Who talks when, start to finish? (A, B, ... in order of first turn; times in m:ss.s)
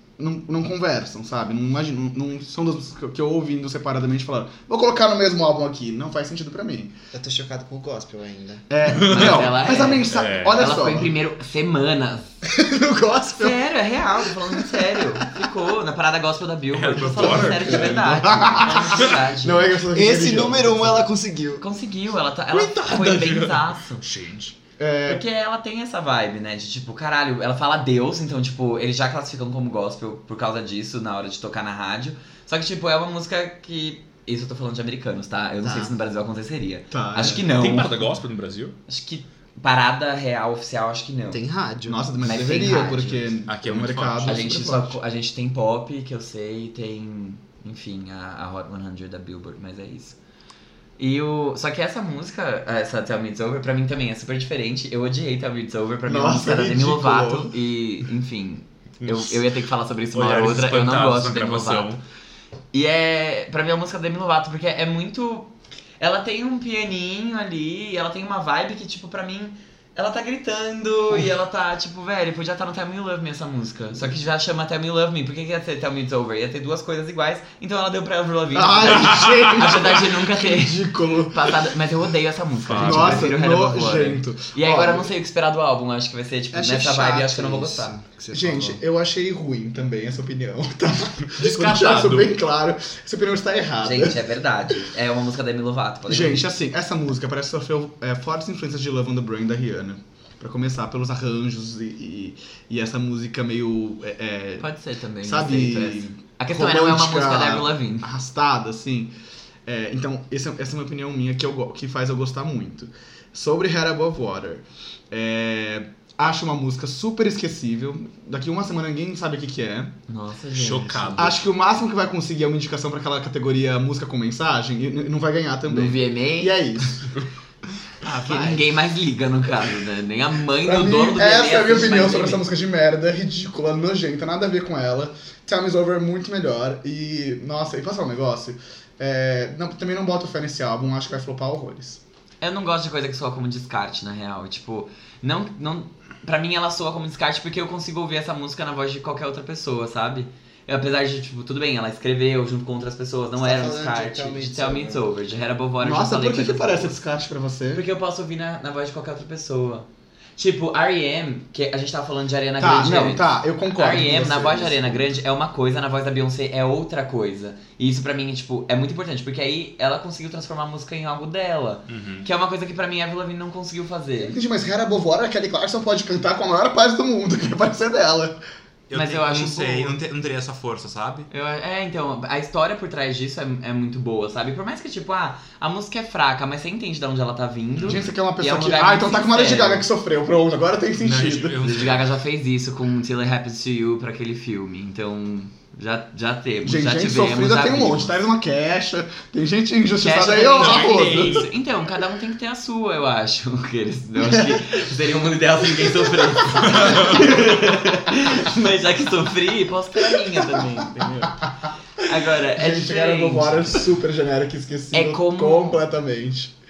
0:00.2-0:07.0 A
0:07.1-0:08.6 B
0:08.7-0:11.1 A
0:08.8-0:10.9 C
0:09.1-0:12.4 D
0:12.5-0:13.6 A
0:13.3-0:19.8 D
0:16.7-0:18.2 C
0:17.0-0:21.1 A
0:19.9-0:21.6 B
0:21.6-0:24.0 D
0:22.5-0:24.6 C
0:24.8-0:25.2 A
0:25.1-0:38.1 D
0:35.6-0:35.9 B
0:36.9-0:37.5 A
0:37.5-0:38.8 C
0:38.9-0:41.4 D
0:41.3-0:42.0 B
0:41.9-0:45.0 A
0:42.2-0:43.4 D
0:43.5-0:44.5 C
0:44.2-0:50.2 D
0:51.0-1:01.9 D
0:56.1-0:57.5 A
0:59.0-0:59.4 C
1:00.1-1:02.0 C
1:02.7-1:27.9 D
1:18.5-1:21.7 A
1:22.6-1:23.4 C
1:22.7-1:25.1 A
1:26.5-1:28.8 B
1:28.3-1:34.2 A
1:31.4-1:32.3 C
1:33.8-1:36.5 D
1:36.1-1:44.7 A
1:44.6-1:48.1 D
1:45.2-1:49.1 A
1:49.7-1:59.9 A
2:00.1-2:01.3 D
2:00.5-2:01.4 C
2:01.2-2:07.1 A
2:05.7-2:06.9 D
2:08.0-2:12.4 D
2:08.1-2:08.6 B
2:10.6-2:22.0 A
2:22.4-2:37.0 D
2:33.4-2:35.0 B
2:35.8-2:37.8 A
2:37.7-2:54.4 D
2:42.6-2:45.2 A
2:51.9-2:52.3 C
2:54.2-2:58.4 A
2:58.9-3:01.3 C
2:58.9-3:00.0 D
3:01.3-3:09.9 D
3:07.8-3:08.0 C
3:07.8-3:11.6 A
3:11.0-3:12.0 C
3:11.6-3:18.2 D
3:16.6-3:21.4 A
3:20.0-3:34.0 D
3:20.5-3:21.5 C
3:24.2-3:24.6 A
3:26.6-3:27.2 C
3:26.9-3:27.7 A
3:30.5-3:31.3 A
3:32.6-3:36.5 A
3:34.9-3:35.8 D